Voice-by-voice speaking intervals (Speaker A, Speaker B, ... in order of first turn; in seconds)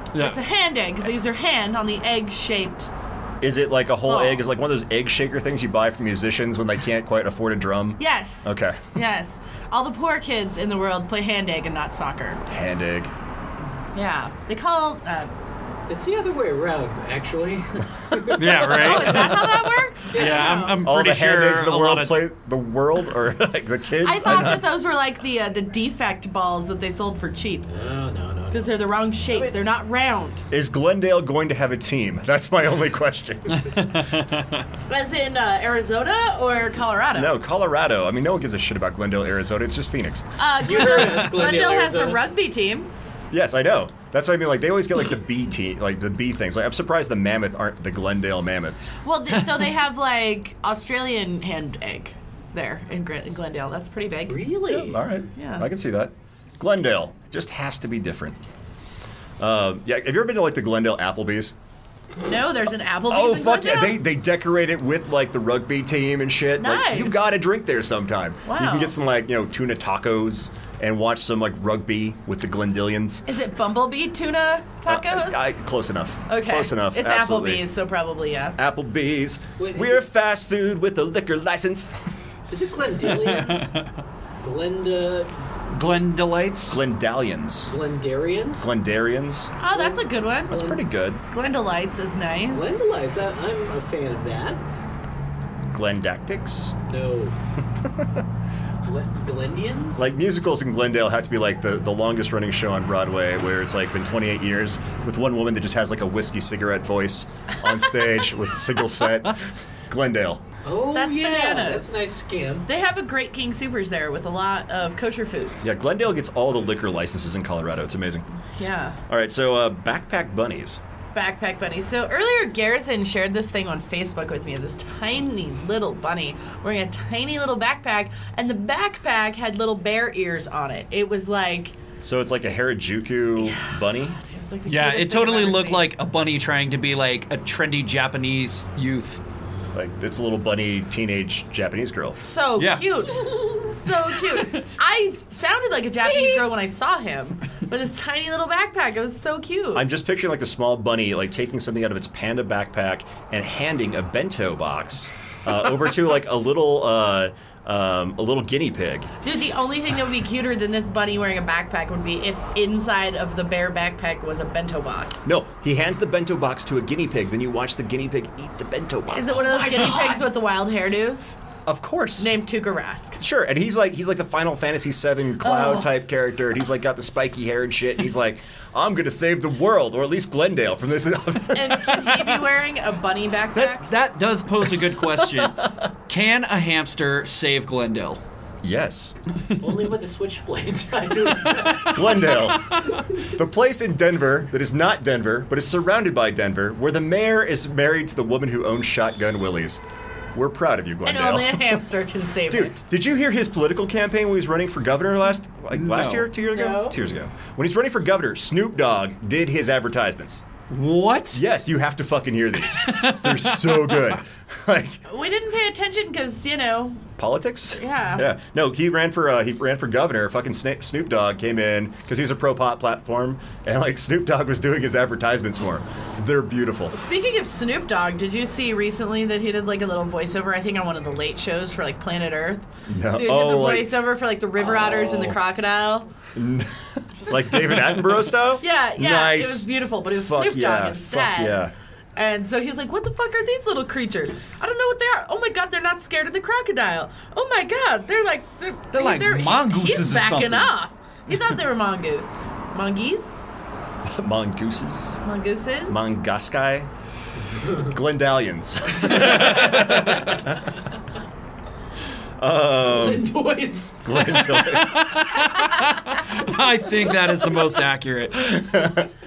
Speaker A: 0.1-0.4, 18.3-22.2, 33.7-34.6, 83.2-83.8, 85.7-86.8, 134.7-139.2, 142.6-142.9, 183.6-188.2, 205.7-206.3, 210.7-211.4, 212.8-214.0, 248.9-250.7, 265.4-268.7
Speaker B: 0.1-2.9, 4.0-4.4, 8.0-12.4, 13.9-15.3, 18.6-20.8, 24.0-27.7, 28.5-30.4, 34.9-37.4, 40.4-42.9, 49.0-54.4, 55.4-55.6, 62.2-64.0, 66.6-67.2, 68.5-68.9, 73.2-75.4, 76.3-78.6, 89.6-90.7, 91.3-92.7, 110.9-112.0, 112.7-115.7, 118.6-119.0, 121.1-131.7, 133.4-135.9, 142.2-149.8, 159.2-165.2, 169.1-171.3, 172.2-173.2, 175.4-175.9, 181.5-183.9, 201.0-202.8, 206.5-207.0, 215.1-217.0, 217.8-218.3, 226.9-236.1, 238.6-241.6, 242.2-253.4, 255.2-256.1
Speaker C: 3.4-8.8, 12.5-13.1, 20.8-24.8, 30.5-33.9, 37.1-40.2, 43.3-48.8, 54.7-58.4, 59.4-61.5, 63.1-73.2, 74.8-77.7, 78.6-81.9, 86.7-87.7, 88.6-89.5, 90.5-91.2, 95.7-96.7, 100.0-110.4, 115.6-118.2, 119.1-120.8, 132.0-134.2, 139.7-142.2, 149.7-159.1, 165.2-169.5, 171.7-172.3, 173.2-182.4, 188.6-189.2, 191.9-199.8, 200.3-201.8, 202.5-210.4, 211.3-215.0, 217.2-226.9, 232.9-234.0, 234.6-235.4, 236.3-241.7, 254.0-255.2, 255.9-256.9, 257.8-260.6, 262.4-263.3, 264.0-265.1, 268.5-269.1
Speaker D: 15.9-19.3, 20.0-20.8, 27.7-29.6, 40.6-42.2, 54.3-55.0, 79.6-80.1, 82.5-83.8, 84.4-85.3, 87.7-88.7, 89.7-90.8, 92.5-94.6, 96.9-97.4, 98.8-100.0, 110.6-112.7, 169.4-170.3, 189.6-192.9, 262.8-265.4